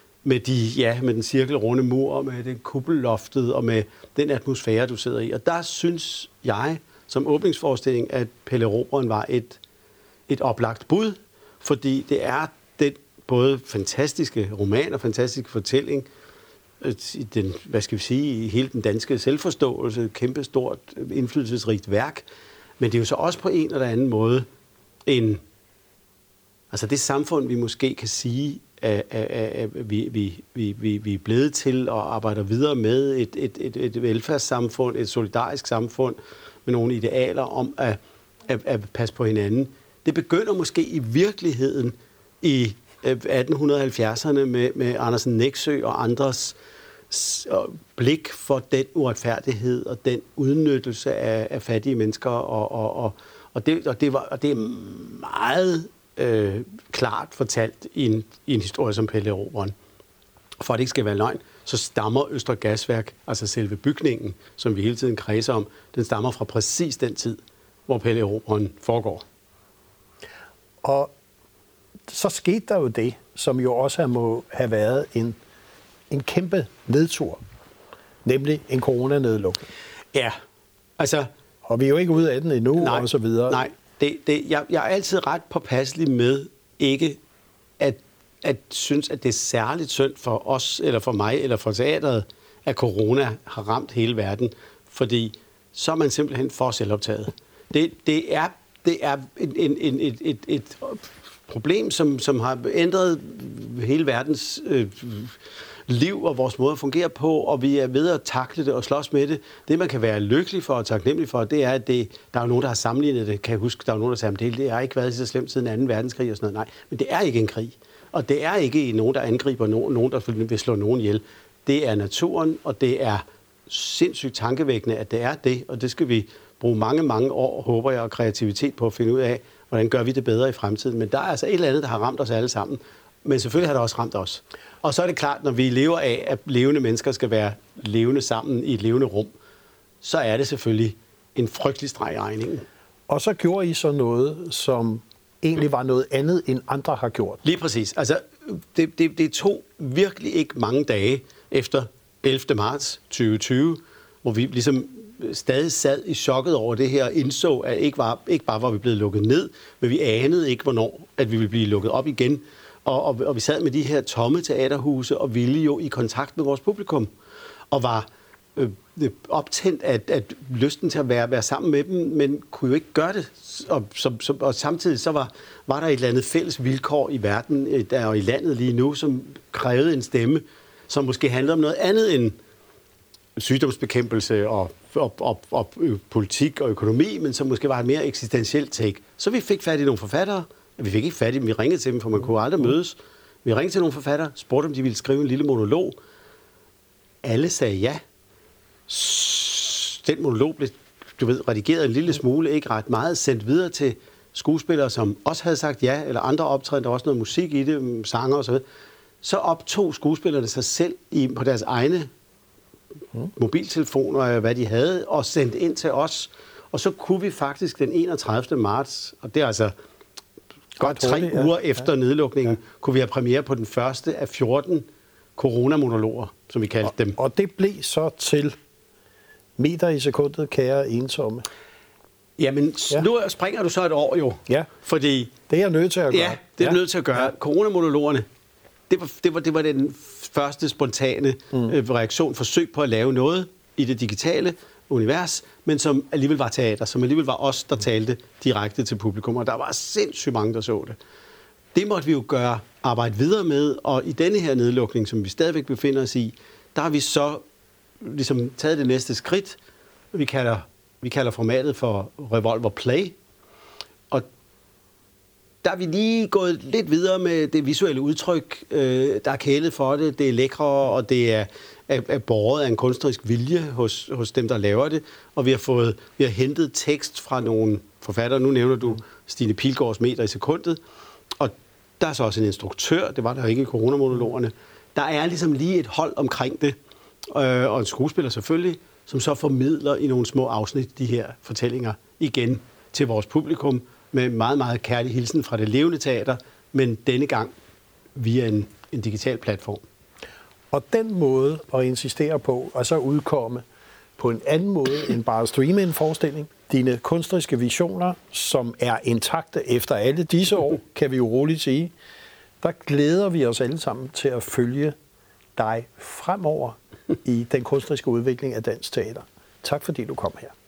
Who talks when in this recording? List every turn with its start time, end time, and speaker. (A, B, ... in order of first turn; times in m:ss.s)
0:00.2-0:09.6 A
0:10.3-0:16.1 A
0:16.8-0:22.2 A
0:22.8-0:24.5 A
0:25.1-0:25.4 A
0:26.7-0:46.6 A
0:47.1-0:59.7 A
1:00.6-1:09.3 A
1:10.8-1:11.1 B
1:12.1-1:15.4 B
1:16.1-1:17.4 B
1:18.2-1:19.7 B
1:21.0-1:21.3 A
1:21.7-1:23.6 B
1:22.8-1:27.2 A
1:27.8-1:45.4 A
1:45.9-2:19.3 A
2:20.0-2:22.6 A
2:23.1-2:27.4 B
2:27.4-2:47.1 A
2:47.7-3:02.4 A
3:03.4-3:16.0 A
3:17.2-3:18.0 A
3:18.9-3:28.6 A
3:29.2-3:32.1 A
3:33.3-3:39.7 A
3:40.8-3:47.2 A
3:40.8-3:41.5 B
3:47.1-3:48.6 B
3:49.6-3:51.4 B
3:52.4-3:55.4 A
3:55.5-3:56.8 B
3:56.1-3:58.3 A
3:58.9-4:11.0 A
4:11.7-4:17.4 A
4:18.0-4:19.6 A
4:20.1-4:23.2 A
4:25.6-4:40.8 A
4:41.4-4:46.8 A
4:47.3-4:57.5 A
4:58.2-4:59.8 A
5:00.7-5:03.6 B
5:04.2-5:11.9 B
5:12.6-5:15.0 B
5:15.6-5:20.5 B